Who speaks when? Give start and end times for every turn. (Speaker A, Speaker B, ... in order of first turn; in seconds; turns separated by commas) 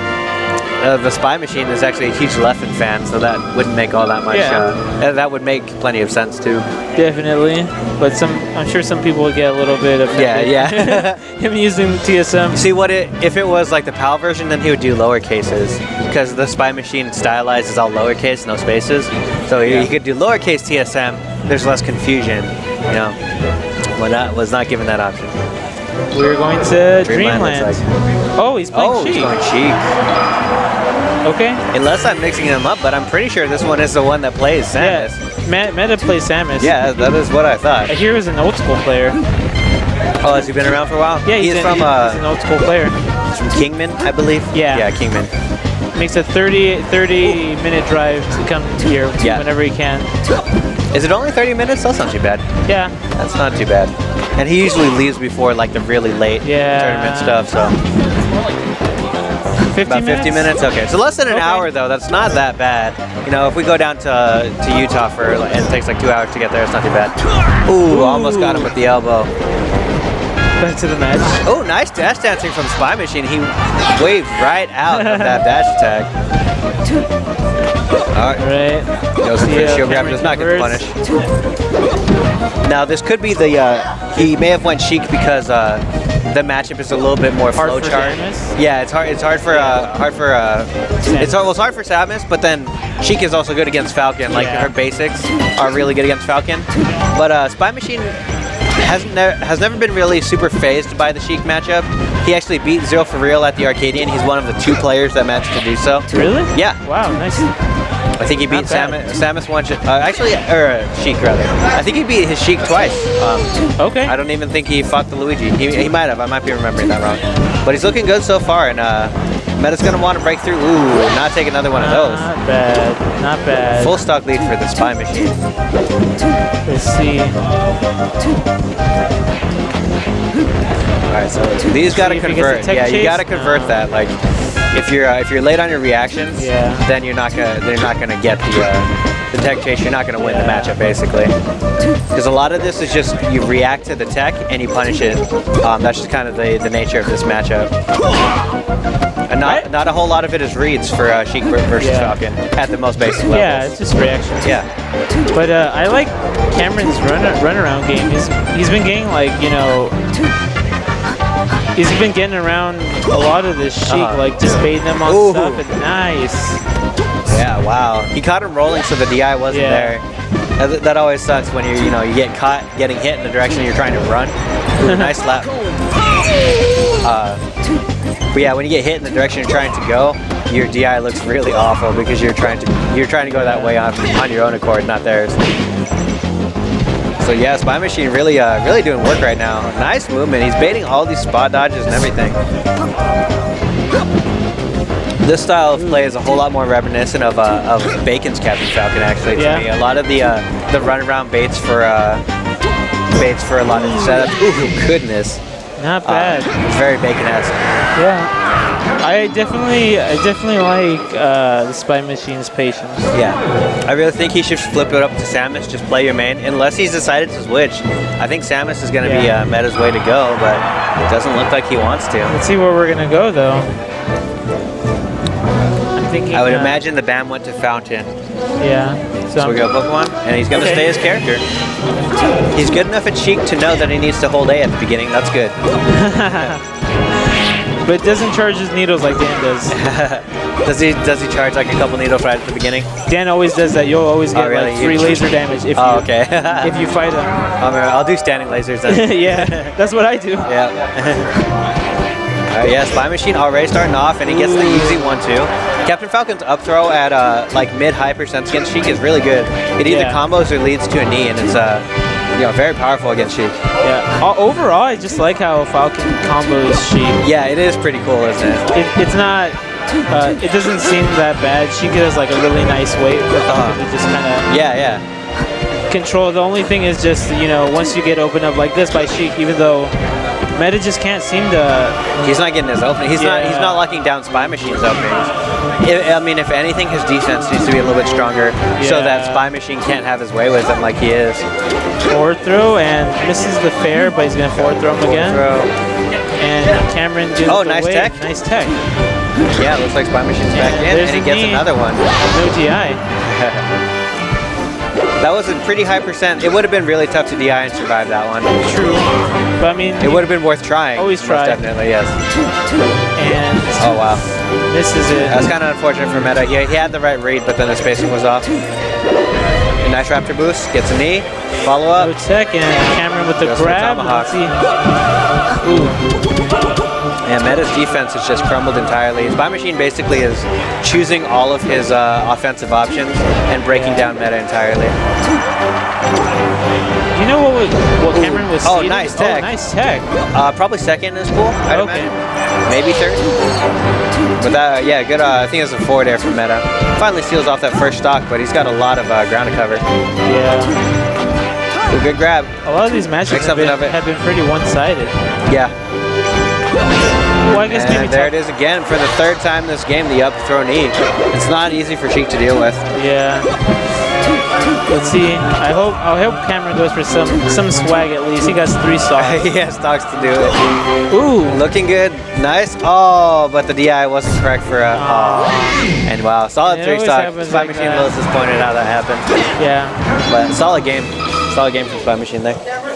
Speaker A: 0.8-6.7, Speaker B: 4.3-4.7, Speaker B: 7.0-12.7, Speaker A: 10.1-11.2, Speaker A: 12.5-23.1, Speaker B: 19.6-19.9, Speaker A: 24.0-25.4, Speaker B: 26.1-27.8, Speaker A: 27.0-27.8, Speaker B: 28.4-29.3, Speaker A: 28.7-29.9, Speaker B: 31.2-31.6, Speaker A: 31.7-35.2, Speaker B: 34.8-36.8, Speaker A: 36.6-37.9, Speaker B: 37.9-39.2, Speaker A: 40.2-42.2, Speaker B: 41.2-43.0, Speaker A: 43.3-45.3, Speaker B: 44.5-44.9, Speaker B: 45.9-50.1, Speaker A: 49.2-49.5, Speaker A: 50.9-52.4, Speaker B: 52.6-53.0, Speaker A: 53.1-57.7, Speaker B: 56.4-57.4, Speaker B: 59.7-60.5, Speaker A: 59.8-67.1, Speaker B: 61.3-61.7, Speaker A: 67.7-69.3, Speaker B: 67.8-68.7, Speaker B: 70.6-71.4, Speaker A: 71.4-76.1, Speaker B: 74.9-75.4, Speaker A: 78.1-78.4, Speaker B: 78.4-78.9, Speaker A: 79.2-81.0, Speaker B: 79.4-81.0, Speaker A: 82.7-98.1, Speaker B: 87.5-88.5, Speaker B: 89.5-89.9, Speaker B: 91.0-91.5, Speaker B: 94.3-94.7, Speaker A: 98.8-106.8, Speaker B: 106.1-107.5, Speaker A: 108.2-113.5, Speaker B: 108.5-109.2, Speaker B: 113.8-114.1, Speaker A: 114.0-122.3, Speaker B: 121.7-124.0, Speaker A: 123.7-125.3, Speaker B: 126.7-127.4, Speaker A: 131.1-134.2, Speaker B: 131.9-133.9, Speaker A: 134.7-141.3, Speaker B: 136.4-136.8, Speaker B: 140.2-140.8, Speaker A: 142.1-147.7, Speaker A: 149.3-153.7, Speaker B: 149.4-149.7, Speaker B: 151.8-152.2, Speaker B: 153.3-154.6, Speaker B: 155.3-159.9, Speaker B: 161.8-166.6, Speaker A: 163.9-164.2, Speaker A: 165.0-165.6, Speaker A: 167.3-170.0, Speaker B: 169.5-169.9, Speaker A: 170.6-175.5, Speaker B: 174.8-175.2, Speaker A: 177.0-177.4, Speaker A: 178.3-185.4, Speaker B: 183.2-183.8, Speaker A: 187.2-192.4, Speaker A: 195.2-202.2, Speaker B: 195.8-196.1, Speaker B: 199.3-199.7, Speaker A: 203.1-205.4, Speaker B: 205.8-206.5, Speaker A: 206.0-207.5, Speaker B: 207.9-208.3, Speaker B: 209.0-213.1, Speaker A: 213.1-222.3, Speaker B: 219.0-219.4, Speaker B: 222.3-223.7, Speaker B: 225.9-226.8, Speaker A: 226.3-228.1, Speaker B: 228.6-229.6, Speaker A: 229.3-231.4, Speaker B: 230.5-231.0, Speaker A: 232.5-235.5, Speaker B: 235.9-236.6, Speaker B: 237.8-239.8, Speaker A: 239.7-242.9, Speaker B: 243.1-247.4, Speaker A: 244.3-246.9, Speaker A: 247.6-249.7, Speaker B: 248.9-250.5, Speaker A: 250.4-251.3, Speaker A: 252.5-261.8, Speaker B: 254.2-255.2, Speaker B: 259.8-260.2, Speaker A: 262.4-263.5, Speaker B: 263.8-267.2, Speaker A: 267.2-268.6, Speaker B: 268.7-269.6, Speaker B: 270.1-274.5, Speaker A: 273.4-273.8, Speaker A: 274.5-275.0, Speaker B: 275.9-279.9, Speaker B: 280.6-282.1, Speaker A: 282.2-291.4, Speaker B: 283.1-283.8, Speaker B: 288.8-289.5, Speaker B: 292.1-295.4, Speaker A: 294.5-295.7, Speaker B: 296.4-298.8, Speaker A: 297.4-298.2, Speaker A: 299.5-302.1, Speaker B: 300.5-301.7, Speaker B: 302.3-303.0, Speaker A: 303.2-303.6, Speaker A: 305.2-308.5, Speaker B: 308.6-309.1, Speaker B: 309.6-310.3, Speaker A: 310.0-312.1, Speaker B: 310.9-311.6, Speaker B: 313.2-314.1, Speaker A: 313.8-314.2, Speaker B: 314.7-315.5, Speaker A: 315.3-318.5, Speaker A: 319.8-322.1, Speaker B: 321.9-324.6, Speaker A: 323.4-324.4, Speaker B: 325.6-326.0, Speaker A: 327.3-334.9, Speaker B: 333.7-334.1, Speaker B: 337.1-340.1, Speaker A: 338.1-339.5, Speaker A: 340.3-342.1, Speaker B: 341.7-342.1, Speaker A: 342.7-343.2, Speaker A: 344.4-349.8, Speaker B: 350.2-350.8, Speaker A: 351.9-352.5, Speaker B: 352.6-355.2, Speaker A: 353.3-354.0, Speaker A: 355.5-355.7, Speaker B: 357.4-358.3, Speaker A: 357.6-362.8, Speaker B: 362.9-363.5, Speaker B: 364.9-369.5, Speaker A: 369.2-370.6, Speaker B: 371.1-371.6, Speaker A: 371.5-379.3, Speaker B: 374.9-375.8, Speaker B: 376.6-378.1, Speaker B: 379.6-379.9, Speaker A: 380.3-382.6